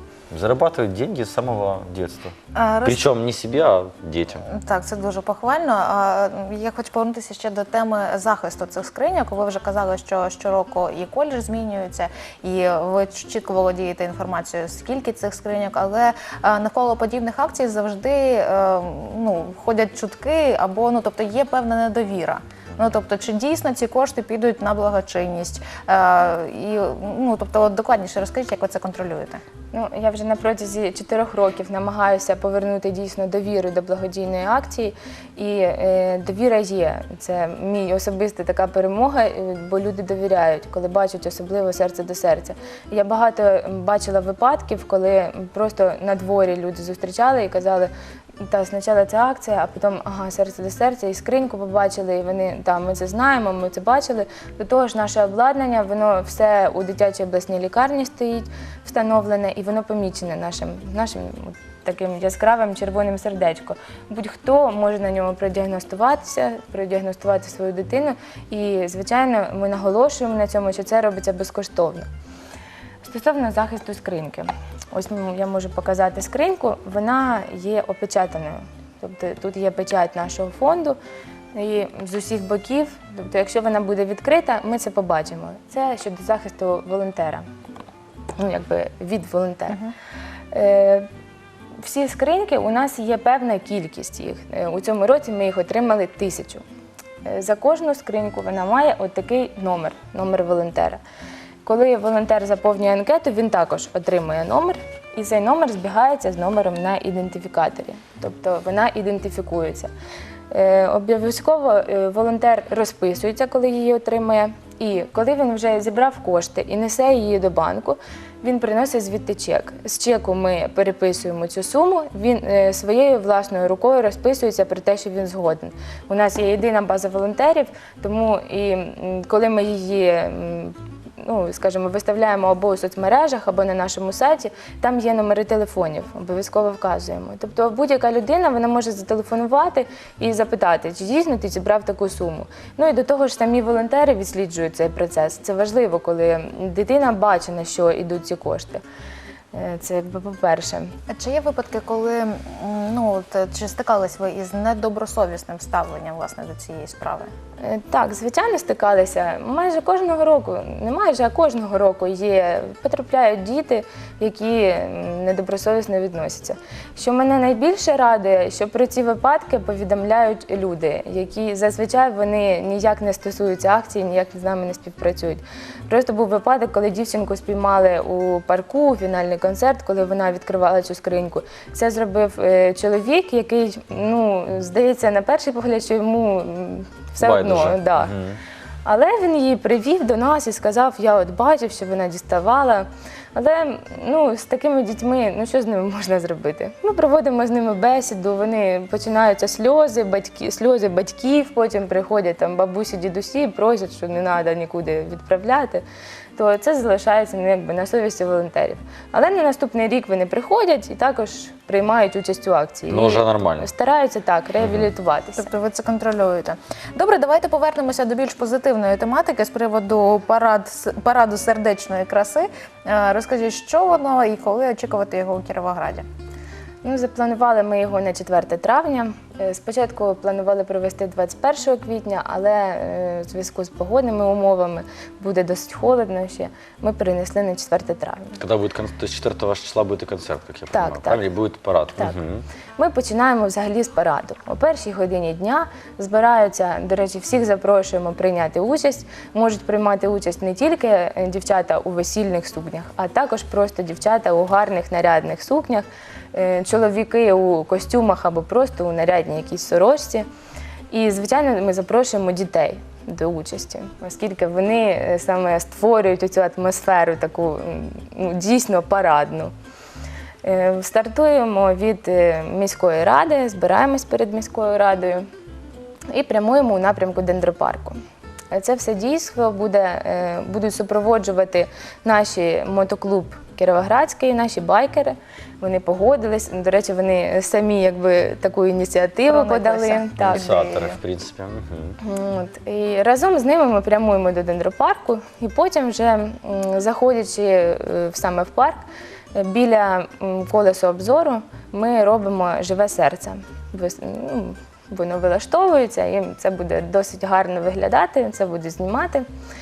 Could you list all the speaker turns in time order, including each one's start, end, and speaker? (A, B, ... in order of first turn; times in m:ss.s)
0:00.3-0:04.4 A
0:02.5-0:03.0 B
0:04.5-0:29.4 B
0:29.7-0:47.9 C
0:48.4-1:12.1 C
1:13.0-1:21.0 C
1:21.5-1:27.4 C
1:28.4-1:29.8 C
1:30.5-1:31.1 C
1:31.8-1:36.6 C
1:37.2-1:41.0 C
1:41.6-1:49.9 C
1:50.5-2:28.8 C
2:29.5-2:30.9 C
2:31.1-2:37.3 B
2:37.6-3:08.1 C
3:07.2-3:08.4 A
3:08.8-3:25.8 C
3:26.4-3:35.5 C
3:32.9-3:33.7 A
3:34.6-3:34.9 A
3:35.4-3:46.0 B
3:46.8-3:58.4 C
3:58.4-4:02.4 A
4:00.7-4:01.2 C
4:02.8-4:20.2 C
4:20.9-4:29.5 C
4:30.4-4:35.2 C
4:36.1-4:38.0 C
4:38.5-4:50.4 C
4:49.3-4:51.0 B
4:50.2-4:52.0 A
4:52.0-4:58.8 C
4:59.3-5:09.2 C